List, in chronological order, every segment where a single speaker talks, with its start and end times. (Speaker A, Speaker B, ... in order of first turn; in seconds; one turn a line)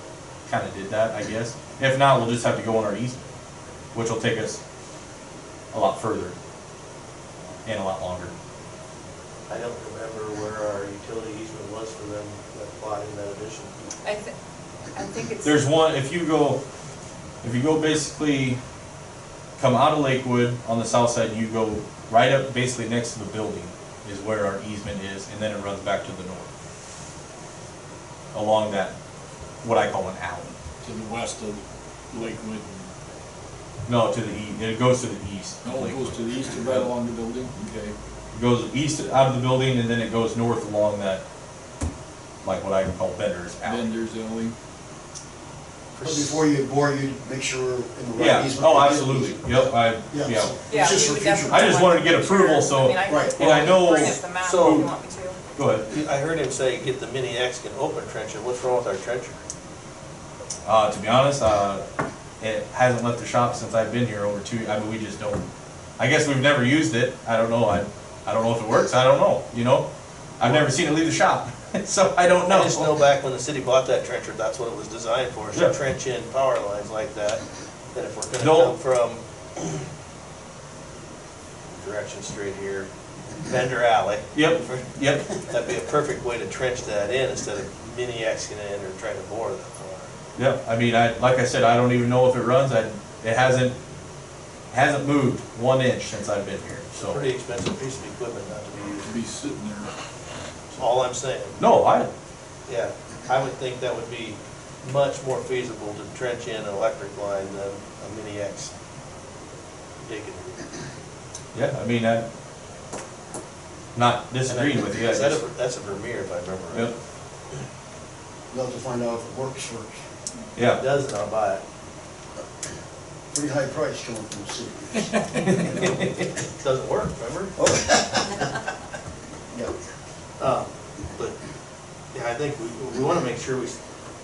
Speaker A: 0.5-3.3
Speaker A: 3.9-4.6
Speaker A: 5.7-6.3
Speaker A: 7.6-8.3
Speaker B: 9.5-13.7
Speaker C: 14.0-14.3
Speaker C: 14.9-15.6
Speaker A: 15.4-16.6
Speaker A: 17.4-18.6
Speaker A: 19.6-26.5
Speaker A: 28.3-28.9
Speaker A: 29.6-30.5
Speaker D: 30.8-32.9
Speaker A: 33.9-36.9
Speaker D: 35.6-37.9
Speaker A: 38.3-41.2
Speaker A: 42.4-43.9
Speaker D: 43.6-44.5
Speaker B: 45.9-46.5
Speaker E: 46.0-51.8
Speaker A: 48.2-50.5
Speaker C: 50.7-55.4
Speaker A: 51.5-54.9
Speaker E: 53.0-53.4
Speaker B: 53.4-54.9
Speaker A: 55.5-55.9
Speaker B: 55.9-59.4
Speaker A: 60.6-61.8
Speaker A: 62.4-65.4
Speaker A: 66.0-69.9
Speaker A: 70.4-73.0
Speaker B: 70.4-70.7
Speaker B: 72.5-77.4
Speaker B: 77.9-79.8
Speaker A: 78.4-78.7
Speaker B: 81.7-82.9
Speaker B: 83.4-90.1
Speaker A: 84.3-85.3
Speaker A: 90.3-93.7
Speaker A: 94.7-97.2
Speaker B: 96.9-99.2
Speaker D: 99.0-99.9
Speaker B: 100.7-101.6
Speaker A: 101.6-102.1
Speaker B: 102.7-108.7
Speaker B: 110.0-110.6
Speaker A: 111.5-112.2
Speaker A: 113.9-115.4
Speaker B: 114.5-116.9
Speaker E: 118.5-120.0
Speaker A: 120.5-120.8
Speaker B: 120.8-121.6
Speaker E: 123.3-125.2
Speaker B: 125.7-127.5
Speaker E: 127.6-128.3
Speaker B: 130.4-131.3
Speaker B: 132.1-133.7